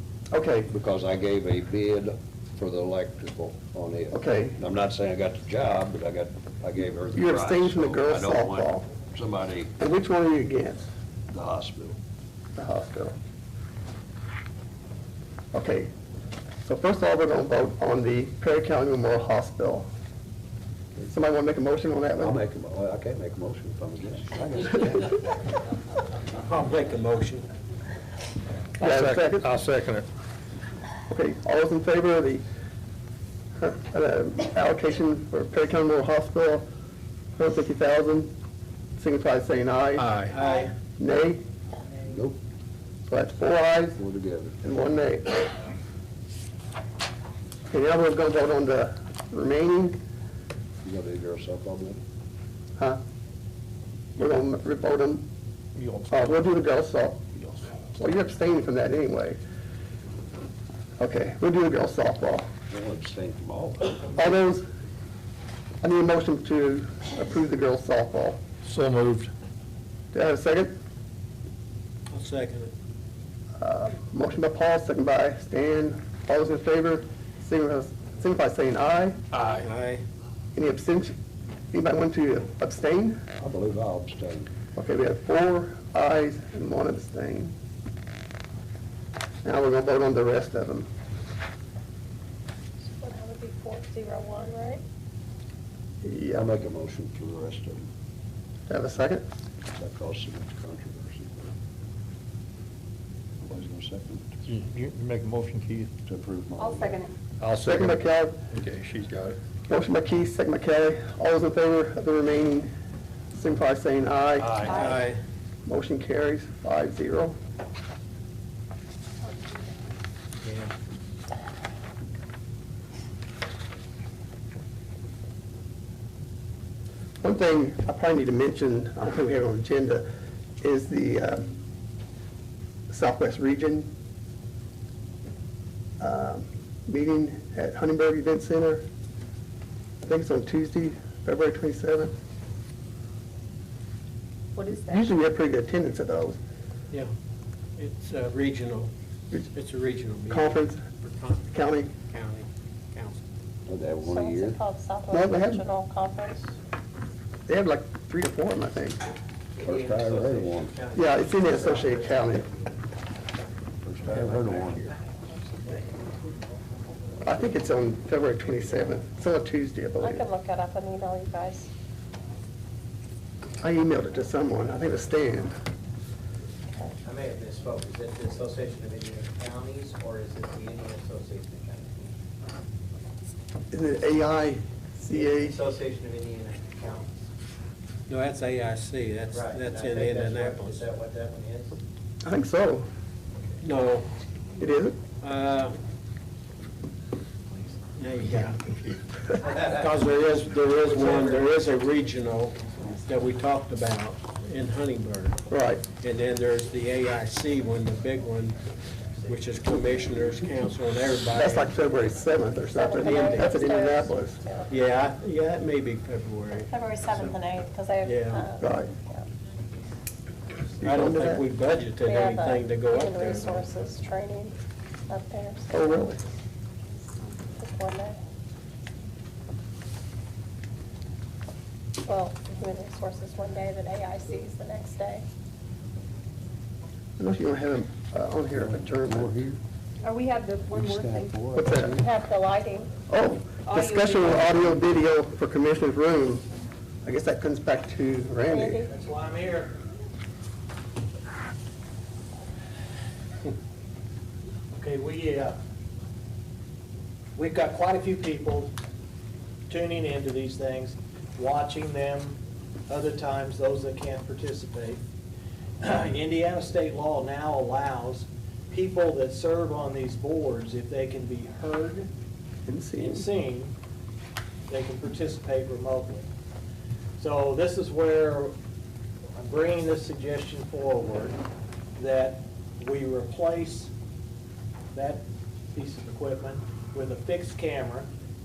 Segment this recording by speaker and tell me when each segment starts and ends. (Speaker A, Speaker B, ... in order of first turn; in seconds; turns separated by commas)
Speaker A: 0.3-0.7, Speaker B: 0.7-9.7, Speaker A: 4.1-4.6, Speaker A: 7.2-8.9, Speaker A: 9.8-10.9, Speaker B: 11.3-12.0, Speaker A: 12.6-13.2, Speaker A: 15.5-15.9, Speaker A: 16.6-19.9, Speaker A: 21.1-22.4, Speaker B: 22.2-25.3, Speaker C: 26.4-27.5, Speaker A: 28.8-29.4, Speaker D: 28.8-30.1, Speaker A: 31.1-32.4, Speaker A: 33.6-36.6, Speaker A: 37.4-38.3, Speaker A: 39.0-40.1, Speaker C: 40.0-40.7, Speaker E: 40.4-40.7, Speaker A: 41.0-41.4, Speaker B: 42.0-42.4, Speaker A: 43.1-44.0, Speaker B: 44.0-44.6, Speaker A: 44.6-45.5, Speaker A: 47.7-50.0, Speaker B: 50.8-52.0, Speaker A: 54.2-55.2, Speaker D: 55.8-56.4, Speaker A: 56.1-57.2, Speaker D: 57.3-57.8, Speaker A: 57.8-59.4, Speaker A: 61.0-62.5, Speaker B: 62.7-64.2, Speaker A: 64.2-64.6, Speaker A: 65.8-68.4, Speaker D: 68.6-69.3, Speaker A: 70.1-70.7, Speaker C: 72.1-72.7, Speaker A: 73.6-79.2, Speaker D: 79.3-79.7, Speaker C: 79.5-80.0, Speaker A: 80.5-81.1, Speaker A: 81.7-83.2, Speaker B: 83.4-84.5, Speaker A: 84.7-87.5, Speaker A: 89.4-90.9, Speaker E: 93.0-94.8, Speaker A: 96.0-96.4, Speaker B: 96.3-97.9, Speaker A: 98.7-99.2, Speaker B: 99.7-101.5, Speaker B: 103.4-104.5, Speaker D: 104.5-105.9, Speaker B: 106.0-107.0, Speaker E: 106.7-107.1, Speaker D: 107.4-109.4, Speaker A: 107.6-108.4, Speaker A: 109.7-112.7, Speaker A: 113.3-114.9, Speaker D: 114.4-114.9, Speaker E: 114.6-115.0, Speaker C: 114.6-115.2, Speaker A: 115.7-117.3, Speaker C: 120.4-120.7, Speaker A: 127.2-130.1, Speaker A: 130.6-131.5, Speaker A: 132.9-133.9, Speaker A: 136.0-138.8, Speaker A: 140.0-142.1, Speaker A: 144.7-146.4, Speaker F: 144.7-145.0, Speaker C: 147.8-148.9, Speaker C: 149.5-153.2, Speaker A: 150.3-150.8, Speaker A: 151.5-151.9, Speaker B: 153.7-154.6, Speaker E: 154.0-156.5, Speaker A: 155.1-155.7, Speaker A: 157.5-159.0, Speaker G: 159.6-162.8, Speaker B: 159.6-160.7, Speaker A: 160.9-162.4, Speaker B: 163.8-164.9, Speaker A: 167.2-170.2, Speaker E: 170.0-171.7, Speaker A: 173.6-175.5, Speaker G: 177.0-182.1, Speaker A: 183.7-185.6, Speaker G: 185.1-187.3, Speaker C: 188.1-190.8, Speaker G: 189.3-191.8, Speaker A: 192.2-192.9, Speaker C: 193.6-194.1, Speaker A: 194.6-195.0, Speaker C: 195.2-195.8, Speaker C: 197.9-205.4, Speaker G: 199.4-201.9, Speaker A: 205.5-205.8, Speaker C: 206.0-208.6, Speaker C: 209.2-211.7, Speaker A: 211.3-214.4, Speaker E: 212.5-214.8, Speaker C: 212.9-213.6, Speaker C: 214.7-217.3, Speaker E: 216.7-219.2, Speaker C: 218.0-218.5, Speaker A: 218.6-218.9, Speaker A: 220.8-221.5, Speaker C: 220.8-223.7, Speaker E: 222.0-224.5, Speaker E: 225.1-225.8, Speaker A: 225.7-226.2, Speaker E: 227.4-228.2, Speaker E: 232.0-235.2, Speaker A: 237.2-239.3, Speaker B: 238.6-239.6, Speaker F: 240.1-241.2, Speaker B: 240.7-242.1, Speaker A: 241.6-242.0, Speaker E: 241.7-242.9, Speaker A: 243.1-246.4, Speaker F: 243.7-244.2, Speaker A: 247.0-248.8, Speaker E: 248.5-248.9, Speaker H: 248.9-249.7, Speaker H: 254.8-255.6, Speaker H: 257.4-258.7, Speaker H: 259.7-265.0, Speaker H: 265.8-272.1, Speaker A: 272.7-273.3, Speaker H: 273.0-273.7, Speaker H: 274.7-276.3, Speaker H: 277.2-278.5, Speaker H: 279.4-281.4, Speaker H: 281.9-283.9, Speaker H: 284.9-288.1